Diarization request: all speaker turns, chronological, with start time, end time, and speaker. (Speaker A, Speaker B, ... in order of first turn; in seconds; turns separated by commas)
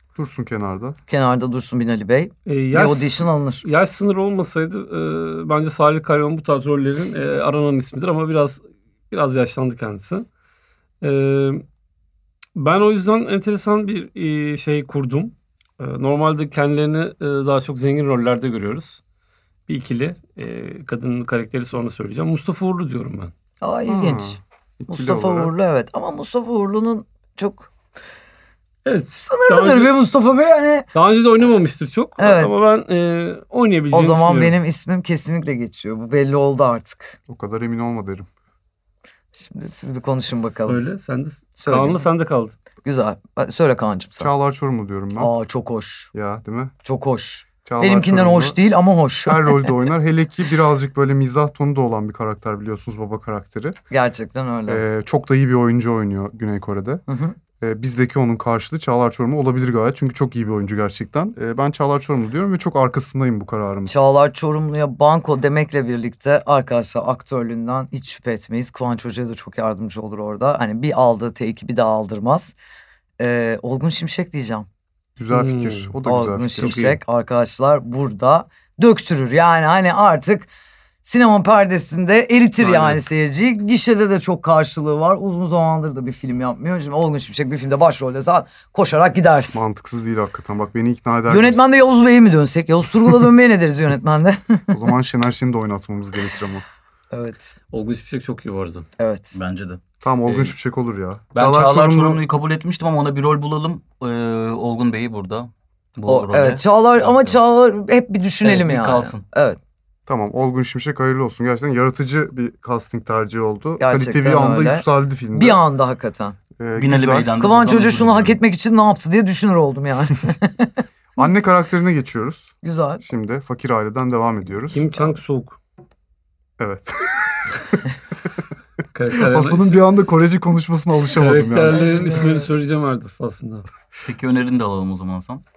Speaker A: 0.2-1.0, Speaker B: 1.1-3.6, Speaker C: 2.5-10.3, Speaker C: 11.0-11.7, Speaker C: 12.6-19.0, Speaker C: 19.7-23.3, Speaker B: 23.6-27.7, Speaker A: 23.9-25.5, Speaker C: 28.9-29.9, Speaker B: 29.2-30.9, Speaker C: 30.9-34.6, Speaker B: 32.2-32.5, Speaker B: 33.9-37.2, Speaker A: 37.3-38.3, Speaker B: 39.4-40.8, Speaker C: 40.6-42.5, Speaker B: 41.6-42.0, Speaker B: 42.8-44.3, Speaker A: 44.2-45.3, Speaker B: 45.2-46.1, Speaker A: 46.1-46.7, Speaker B: 46.8-49.7, Speaker A: 47.6-48.6, Speaker A: 49.3-53.8, Speaker B: 53.9-54.8, Speaker A: 54.7-57.0, Speaker B: 57.1-57.4, Speaker A: 57.6-63.9, Speaker B: 63.9-72.5, Speaker B: 73.2-74.7, Speaker A: 75.2-76.9, Speaker C: 75.3-75.9, Speaker B: 76.0-80.5, Speaker C: 76.6-77.0, Speaker B: 81.0-89.6, Speaker A: 82.6-83.0, Speaker A: 89.5-91.6, Speaker B: 91.3-94.8, Speaker A: 94.7-96.6, Speaker B: 97.1-97.5, Speaker C: 97.7-98.9, Speaker B: 99.0-99.3, Speaker D: 99.3-100.5, Speaker A: 100.0-102.2, Speaker D: 101.3-107.4, Speaker B: 106.1-109.6, Speaker D: 108.4-109.2, Speaker A: 110.1-115.6, Speaker B: 113.8-116.4, Speaker A: 116.6-117.3, Speaker D: 116.8-118.4, Speaker B: 117.4-120.7, Speaker A: 121.2-125.2, Speaker B: 122.6-123.0, Speaker C: 124.7-125.6, Speaker A: 126.6-127.8, Speaker C: 128.9-129.8, Speaker A: 129.1-132.0, Speaker C: 131.1-133.7, Speaker B: 131.7-132.5, Speaker D: 134.0-135.4